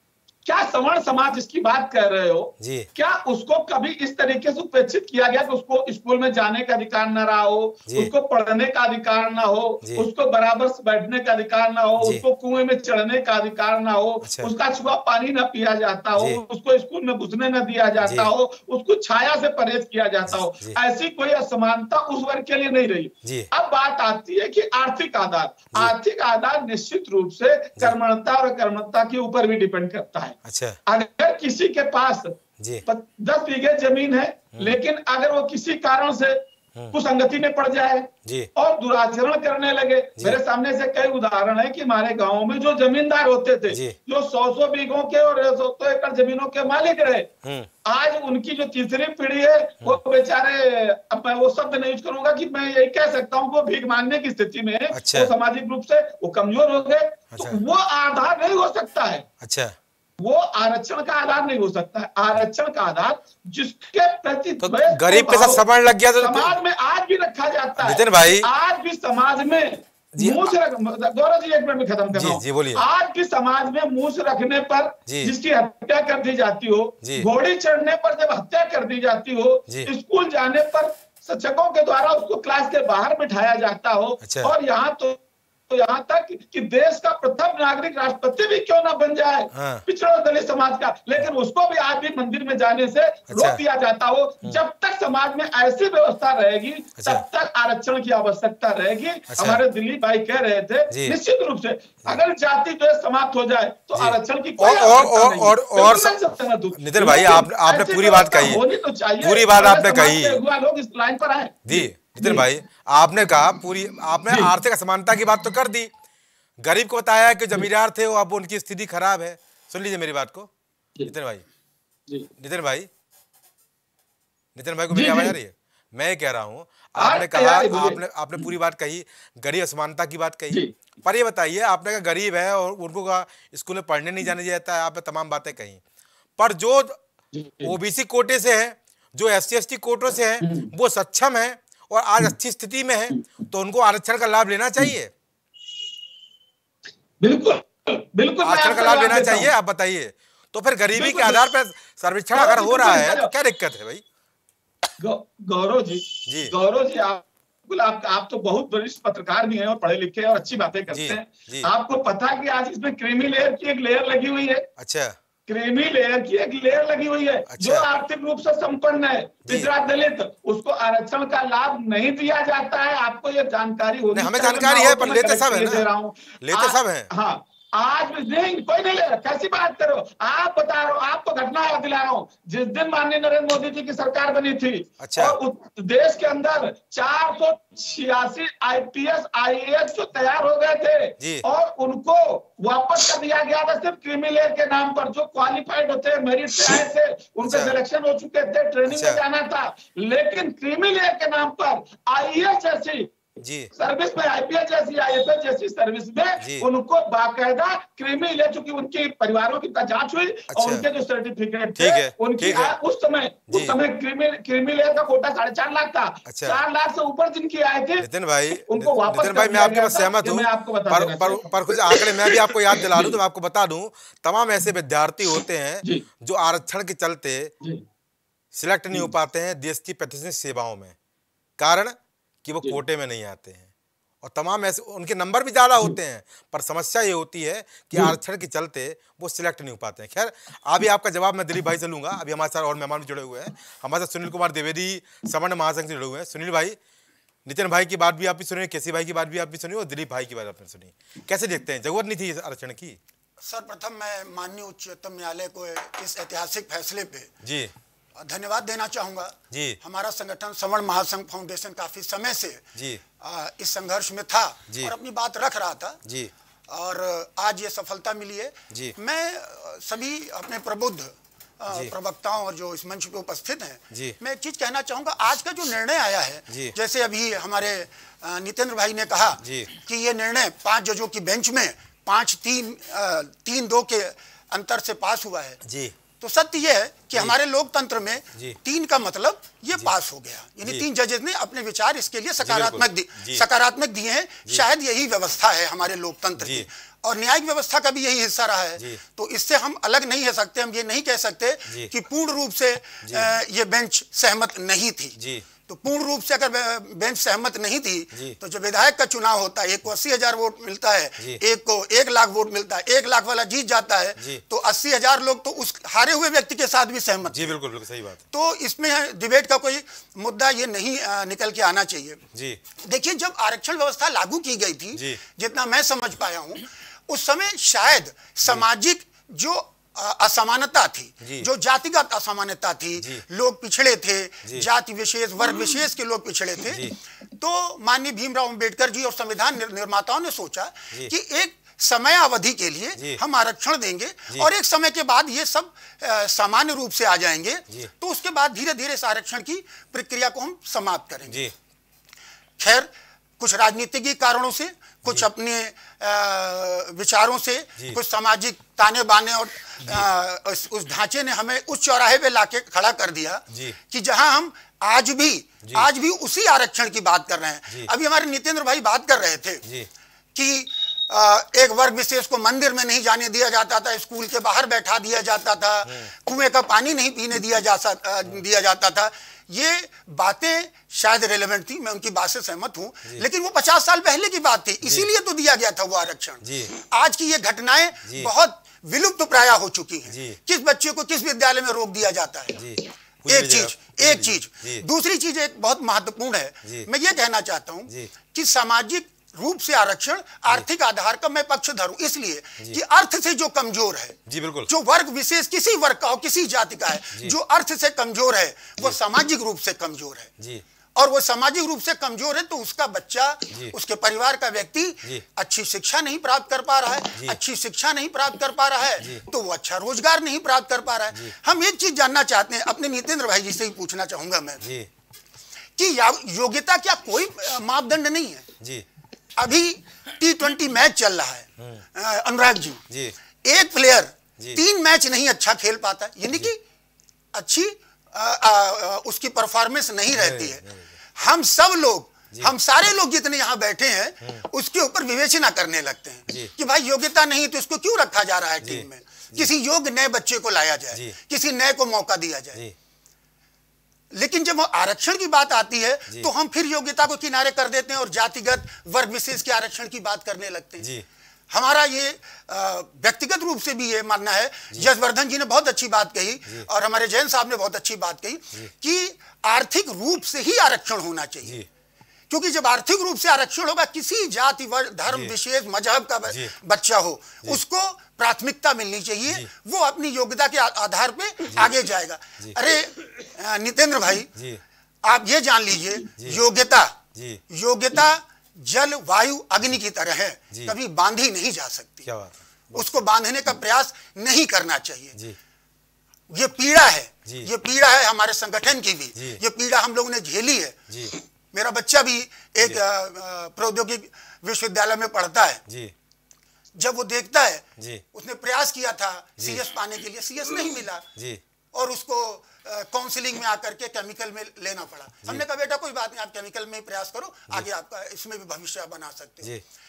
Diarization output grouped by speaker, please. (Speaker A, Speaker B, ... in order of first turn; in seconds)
Speaker A: 0.5-36.4, 36.9-47.3, 47.9-59.2, 60.2-65.6, 66.2-112.4, 124.9-125.3, 127.0-128.5, 137.3-137.7, 140.4-140.7, 147.2-149.5, 150.9-151.5, 152.3-153.3, 155.0-164.7, 165.5-203.1, 203.7-218.1, 218.6-223.1
Speaker B: 2.6-2.9, 14.2-14.5, 16.1-16.4, 18.0-18.3, 20.3-20.8, 23.2-23.5, 30.4-30.8, 32.6-32.8, 43.7-43.9, 47.4-47.7, 54.9-55.3, 59.4-59.7, 64.6-66.5, 67.8-68.5, 70.2-70.5, 72.1-72.8, 75.0-75.3, 77.0-77.3, 84.2-84.5, 89.5-89.8, 93.3-93.6, 97.0-97.2, 99.3-99.6, 100.9-101.2, 103.9-106.2, 106.8-108.6, 109.2-110.4, 111.7-115.9, 116.6-120.5, 121.1-121.4, 122.4-122.9, 124.5-135.8, 136.4-137.0, 137.6-145.1, 148.4-154.0, 156.2-156.5, 160.9-161.7, 164.8-165.2, 167.5-167.9, 174.1-175.9, 176.4-177.1, 185.0-185.3, 197.4-197.8, 198.8-199.2, 203.4-203.7, 206.4-206.7, 210.5-210.8, 211.8-212.7, 213.5-213.8, 216.3-216.6, 218.0-227.5, 228.5-230.9, 231.6-233.7, 234.2-246.8, 247.4-253.0, 257.4-257.7, 259.5-259.8, 262.8-263.0, 266.0-266.3, 273.9-274.1, 276.5-276.7, 279.4-279.7, 285.6-286.0, 292.4-293.4, 296.4-296.6, 305.2-305.4, 317.3-318.2, 322.3-322.6, 324.9-325.2, 331.2-331.5, 336.7-336.9, 351.2-351.5, 363.5-363.8, 384.8-385.1, 386.4-386.7, 390.1-390.4, 392.5-394.8, 404.3-404.7, 410.4-410.6, 424.6-424.9, 432.9-433.1, 440.1-440.9, 446.3-446.5, 448.6-449.5, 450.9-451.2, 460.8-461.1, 475.1-475.3, 476.3-476.5, 481.5-481.8, 484.3-484.6, 487.1-487.4, 492.1-493.0, 499.1-499.4, 505.7-505.9, 507.8-508.0, 509.4-509.6, 511.1-511.4
Speaker C: 253.4-257.3, 258.1-262.7, 263.2-266.0, 266.7-285.6, 286.1-317.6, 318.3-322.2, 322.8-351.5, 352.6-369.6, 370.3-392.7, 393.3-410.3, 410.9-424.6, 425.8-428.4, 429.4-432.8, 433.4-436.6, 437.3-440.6, 441.2-452.6, 454.1-460.9, 461.5-471.6, 472.3-484.3, 485.0-492.1, 492.7-495.1, 496.3-505.6, 506.8-511.1, 511.7-519.5